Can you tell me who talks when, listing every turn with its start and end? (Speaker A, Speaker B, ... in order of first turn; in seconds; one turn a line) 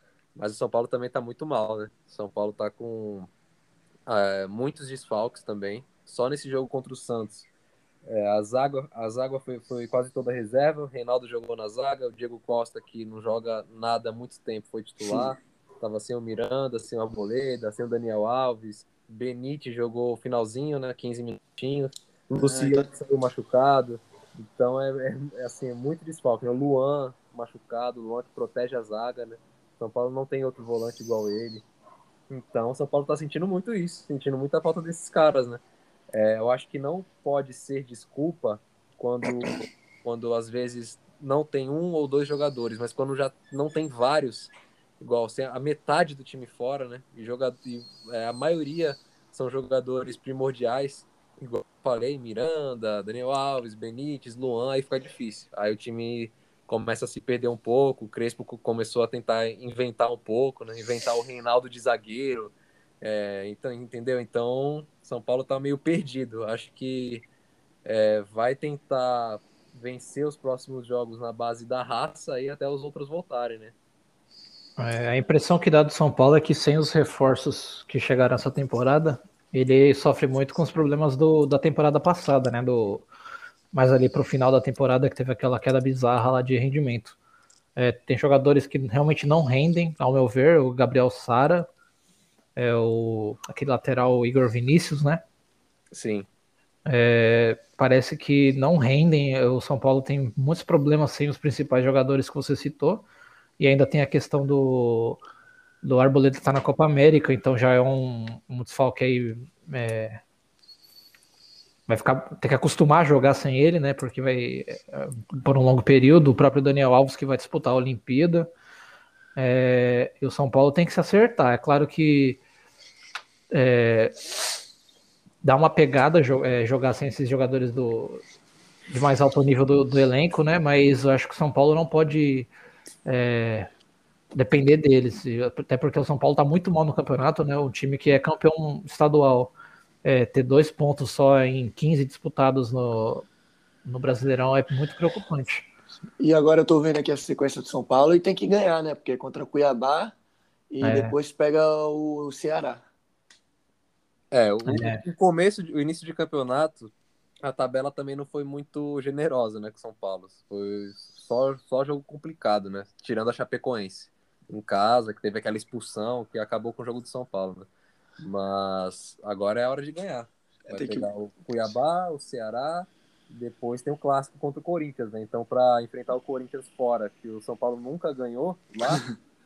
Speaker A: 0.3-3.3
Speaker A: 4.1-7.5
Speaker A: 8.1-31.6
Speaker B: 22.4-22.9
Speaker A: 32.3-35.6
Speaker A: 36.1-67.2
Speaker A: 67.8-73.7
Speaker C: 74.8-83.0
Speaker C: 83.7-87.2
Speaker C: 87.8-91.7
Speaker C: 92.5-95.2
Speaker A: 95.9-96.3
Speaker C: 96.8-103.0
Speaker C: 103.6-105.2
Speaker C: 105.8-110.2
Speaker C: 111.9-118.5
Speaker C: 119.3-122.4
Speaker C: 123.5-124.2
Speaker C: 125.4-128.2
Speaker C: 128.9-132.5
Speaker C: 133.1-133.7
Speaker C: 134.3-139.5
Speaker C: 140.0-143.3
Speaker C: 143.8-145.7
Speaker B: 146.2-150.2
Speaker B: 150.7-152.8
Speaker C: 150.8-151.1
Speaker A: 154.3-156.9
Speaker C: 154.6-155.0
Speaker A: 157.4-167.7
Speaker A: 168.2-179.1
Speaker B: 170.7-171.1